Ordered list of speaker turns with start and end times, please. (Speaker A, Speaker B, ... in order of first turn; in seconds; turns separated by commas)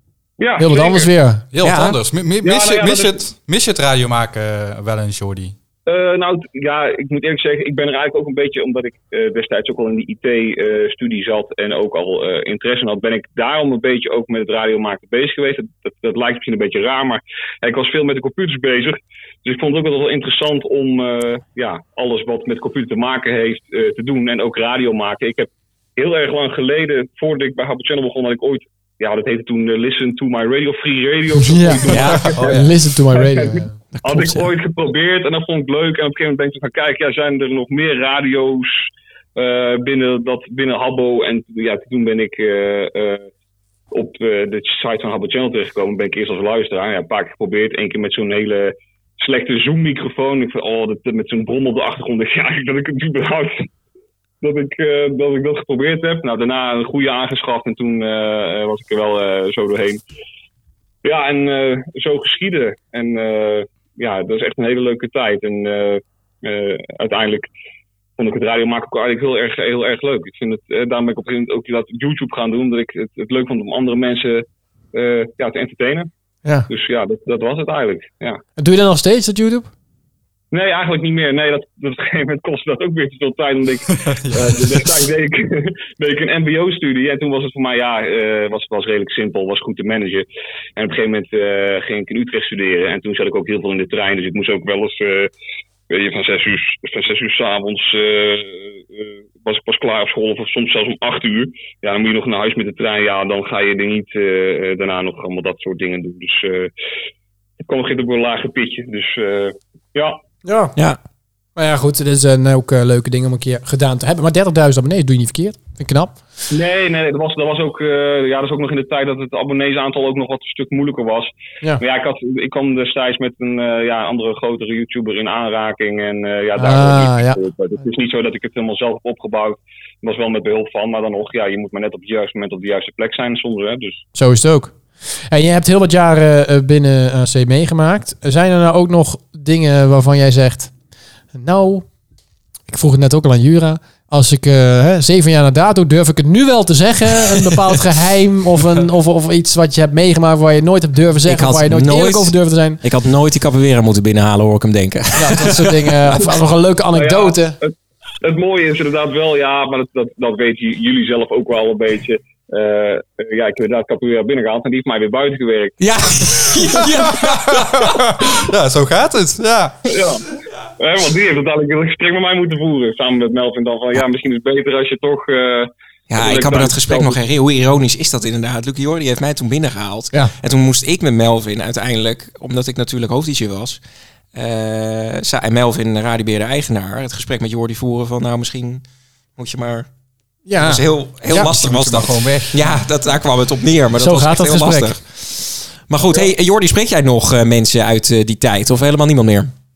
Speaker A: 0.4-1.1, Speaker B: 0.6-1.4, Speaker C: 1.5-5.5, Speaker D: 1.6-2.0, Speaker A: 2.4-3.2, Speaker A: 5.9-32.6, Speaker B: 31.3-34.5, Speaker D: 31.9-32.4, Speaker C: 32.1-32.8, Speaker A: 33.1-43.3, Speaker A: 43.9-53.7, Speaker A: 54.4-60.0, Speaker A: 61.0-67.5, Speaker A: 68.2-76.1, Speaker A: 76.7-78.4, Speaker B: 78.6-79.7, Speaker A: 80.5-95.3, Speaker C: 84.1-84.9, Speaker A: 95.9-106.7, Speaker A: 107.6-110.2, Speaker B: 110.5-110.7, Speaker B: 111.6-116.2, Speaker A: 116.5-134.1, Speaker B: 126.6-127.4, Speaker B: 134.2-134.8, Speaker B: 135.3-140.7, Speaker B: 141.3-141.9, Speaker B: 142.7-152.8, Speaker D: 151.2-156.3, Speaker B: 155.2-157.6, Speaker A: 156.9-165.8, Speaker D: 165.8-168.3, Speaker C: 166.6-169.8, Speaker A: 169.9-170.2, Speaker A: 170.8-177.2, Speaker D: 176.1-183.8, Speaker D: 184.3-188.8, Speaker D: 189.4-189.9, Speaker B: 190.5-191.5, Speaker D: 190.6-199.5, Speaker C: 191.3-192.8, Speaker B: 194.0-194.9